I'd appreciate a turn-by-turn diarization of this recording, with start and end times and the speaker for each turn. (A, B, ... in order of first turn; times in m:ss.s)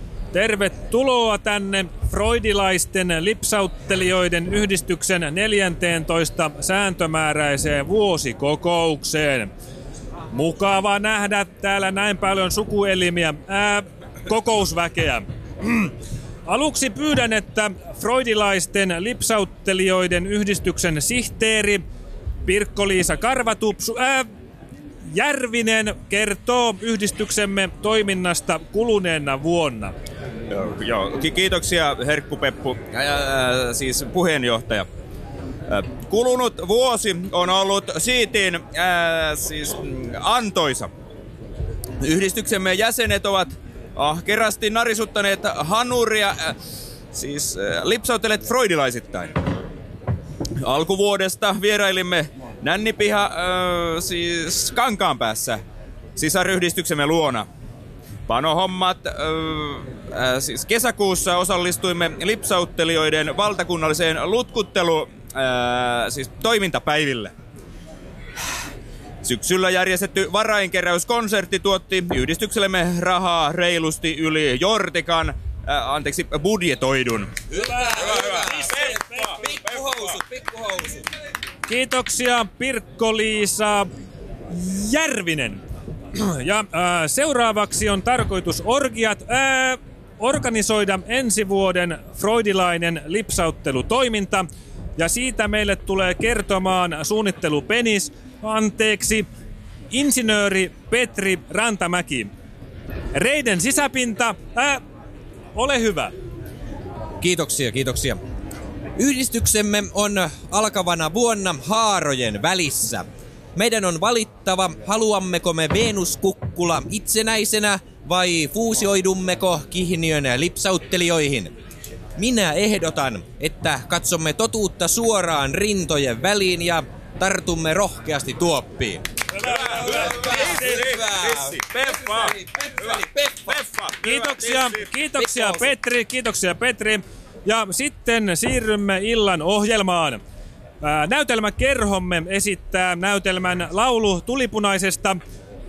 0:00.3-0:09.5 A
0:10.3-0:15.9 A
0:16.4-0:21.8 A
0:22.4-0:24.3 A
0:25.0-0:29.9 A
0:30.5-0:34.9 B
0:35.7-0:40.9 B
0:42.0-0:46.6 B
0:47.1-0:49.3 B
0:50.6-0:55.6 B
0:56.2-0:57.4 B
0:58.3-1:07.3 B
1:09.2-1:20.1 B
1:17.5-1:21.0 C
1:21.7-1:23.9 A
1:24.5-1:25.6 A
1:26.1-1:34.4 A
1:35.0-1:39.2 A
1:39.9-1:42.3 A
1:43.1-1:44.8 A
1:45.5-1:46.1 A
1:47.2-1:48.2 C
1:49.0-1:53.0 C
1:53.6-2:01.5 C
2:02.2-2:09.1 C
2:09.4-2:14.9 B
2:09.5-2:10.1 A
2:09.8-2:13.6 C
2:14.0-2:20.2 A
2:15.2-2:15.7 C
2:20.8-2:25.2 A